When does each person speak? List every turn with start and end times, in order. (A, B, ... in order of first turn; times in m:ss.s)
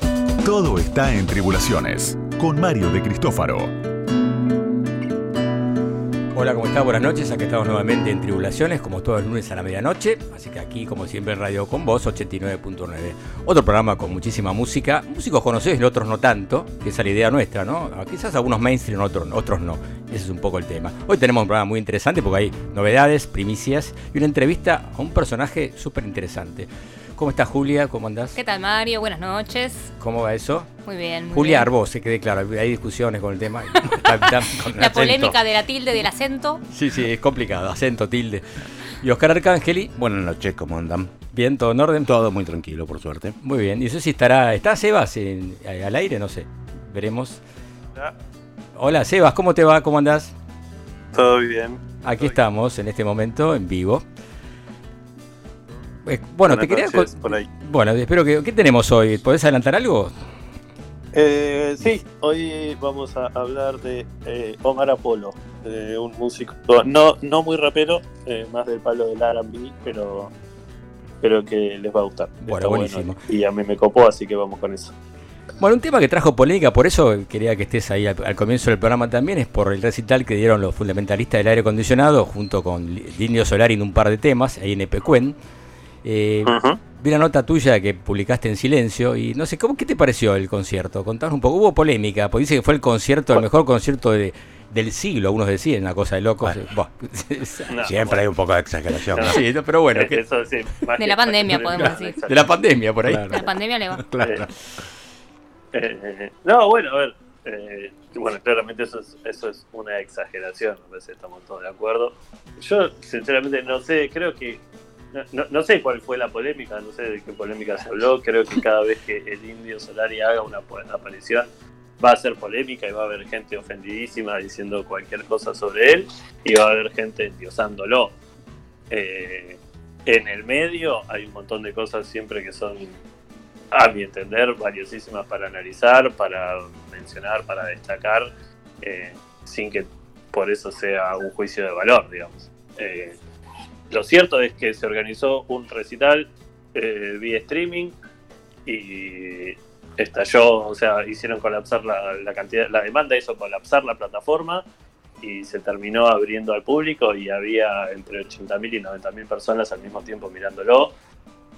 0:00.4-0:03.7 A
0:06.3-0:28.4 B
0:28.4-0:29.9 C
0:30.0-0:30.7 B
0:30.8-0:31.7 C
0:31.3-0:34.6 B
0:34.4-0:35.4 D
0:34.7-0:36.6 C
0:36.7-0:39.9 B
0:40.0-0:41.1 D
0:41.3-0:42.1 B
0:42.1-0:43.4 D
0:43.4-0:47.4 B
0:48.8-0:50.3 B
0:51.1-0:52.4 E
0:52.0-0:54.0 B
0:56.1-1:00.1 B
0:56.5-0:57.5 E
1:01.1-1:10.3 E
1:11.2-1:14.9 E
1:12.4-1:13.2 B
1:15.6-1:25.4 B
1:26.0-1:37.7 B
1:26.5-1:26.8 E
1:37.7-1:38.3 E
1:37.8-1:39.4 D
1:39.1-1:42.5 E
1:39.2-1:40.2 B
1:41.0-1:42.2 C
1:42.3-1:43.3 B
1:43.1-1:44.5 D
1:43.3-1:44.0 C
1:44.2-1:44.5 E
1:45.7-1:54.6 E
1:55.1-2:01.5 E
2:02.0-2:08.2 E
2:08.9-2:13.0 E
2:13.7-2:23.2 E
2:23.9-2:28.0 E
2:28.7-2:34.6 E
2:35.2-2:40.9 E